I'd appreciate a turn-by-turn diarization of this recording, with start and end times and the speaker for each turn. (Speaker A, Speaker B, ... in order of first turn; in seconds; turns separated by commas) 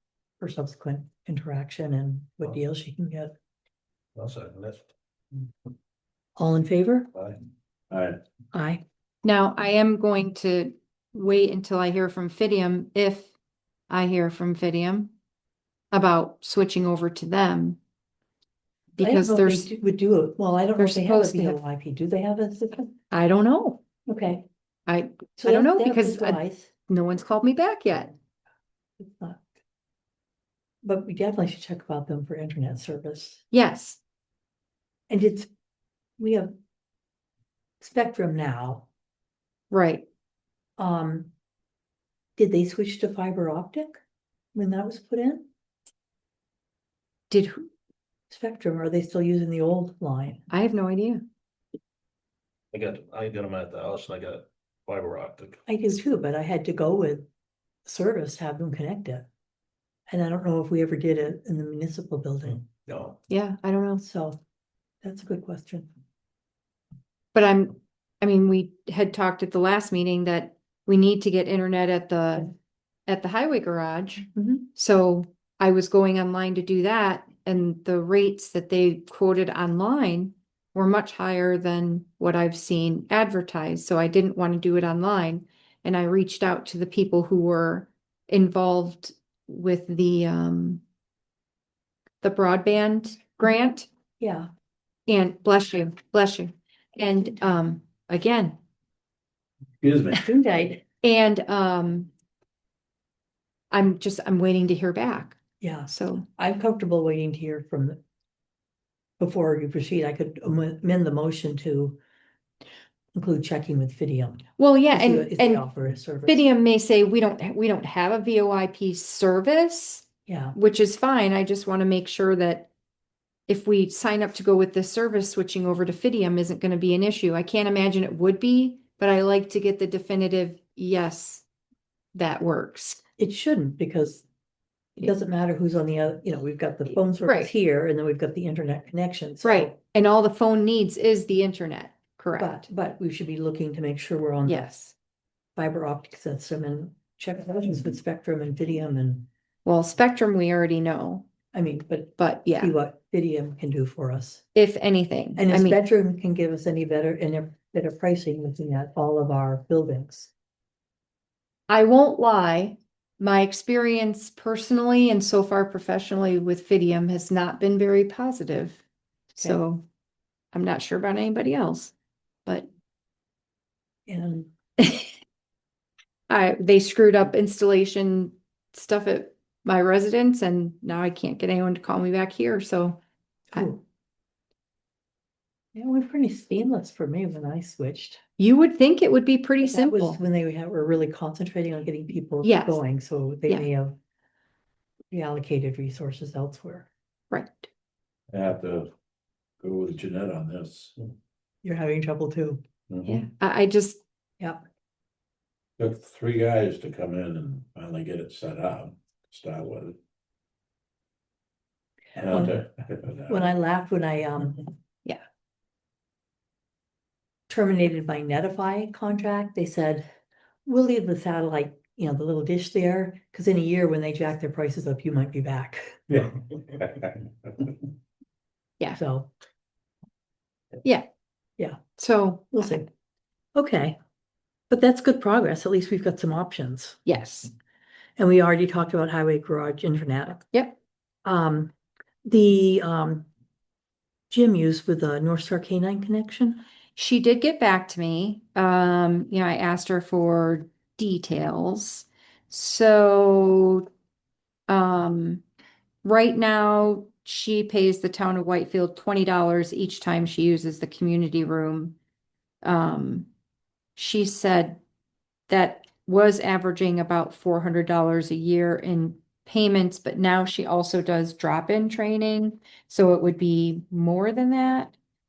Speaker A: 0.4-3.3, Speaker B: 4.2-4.9, Speaker A: 6.4-7.1, Speaker C: 7.9-8.2, Speaker A: 8.5-8.8, Speaker D: 9.2-13.3, Speaker D: 13.9-15.1, Speaker D: 15.9-17.8, Speaker D: 19.0-19.7, Speaker A: 19.0-22.9, Speaker D: 20.8-21.6, Speaker D: 23.1-23.8, Speaker A: 24.1-24.5, Speaker D: 24.9-28.1, Speaker A: 25.4-26.7, Speaker A: 29.0-29.5, Speaker A: 30.8-33.4, Speaker D: 33.5-34.0, Speaker A: 35.1-35.5, Speaker A: 36.2-36.5, Speaker A: 37.8-38.9, Speaker D: 39.7-40.0, Speaker A: 40.8-41.3, Speaker A: 42.4-44.0, Speaker A: 44.5-45.5, Speaker D: 47.3-47.7, Speaker A: 48.3-50.4, Speaker D: 50.5-51.2, Speaker B: 52.7-55.6, Speaker A: 55.7-57.3, Speaker A: 57.9-59.3, Speaker A: 60.1-62.7, Speaker B: 62.9-63.2, Speaker D: 63.3-64.0, Speaker A: 64.0-64.4, Speaker A: 65.0-65.9, Speaker D: 67.3-72.5, Speaker D: 73.1-90.8, Speaker A: 74.3-74.7, Speaker D: 92.2-93.9, Speaker A: 94.2-94.5, Speaker D: 95.1-98.6, Speaker C: 99.8-100.2, Speaker A: 100.2-100.8, Speaker D: 101.0-102.1, Speaker D: 103.7-106.2, Speaker A: 105.6-108.0, Speaker A: 109.2-112.0, Speaker A: 113.1-116.4, Speaker D: 114.6-115.6, Speaker D: 116.3-122.7, Speaker A: 120.3-120.5, Speaker D: 123.5-131.4, Speaker D: 132.2-133.0, Speaker A: 133.2-134.2, Speaker A: 135.0-139.8, Speaker D: 139.4-142.5, Speaker A: 142.4-144.7, Speaker D: 144.5-144.9, Speaker A: 145.6-149.3, Speaker D: 149.7-151.2, Speaker A: 151.5-154.4, Speaker D: 152.2-152.7, Speaker D: 154.6-155.8, Speaker A: 155.4-160.3, Speaker D: 161.7-168.8, Speaker D: 169.3-169.8, Speaker D: 170.5-171.9, Speaker A: 174.1-174.5, Speaker D: 174.8-175.1, Speaker D: 176.3-183.0, Speaker A: 183.5-183.8, Speaker A: 185.7-188.2, Speaker D: 188.4-190.2, Speaker A: 189.6-194.0, Speaker D: 192.4-192.8, Speaker A: 195.1-196.9, Speaker D: 197.3-197.7, Speaker C: 198.3-198.9, Speaker C: 199.6-200.9, Speaker A: 201.6-202.6, Speaker C: 202.9-203.2, Speaker D: 203.1-204.0, Speaker C: 205.8-210.0, Speaker C: 212.2-213.5, Speaker A: 212.2-212.6, Speaker A: 213.3-214.7, Speaker A: 217.5-220.1, Speaker A: 220.7-226.3, Speaker C: 226.1-227.2, Speaker A: 228.9-229.3, Speaker D: 232.0-232.8, Speaker A: 232.5-232.9, Speaker A: 233.6-234.0, Speaker A: 234.7-237.0, Speaker D: 237.1-237.5, Speaker A: 238.2-240.5, Speaker A: 241.2-241.7, Speaker A: 242.2-243.3, Speaker A: 244.3-246.6, Speaker D: 247.0-253.9, Speaker D: 254.7-255.4, Speaker D: 256.0-261.9, Speaker D: 262.6-263.3, Speaker D: 264.0-264.8, Speaker D: 265.5-274.9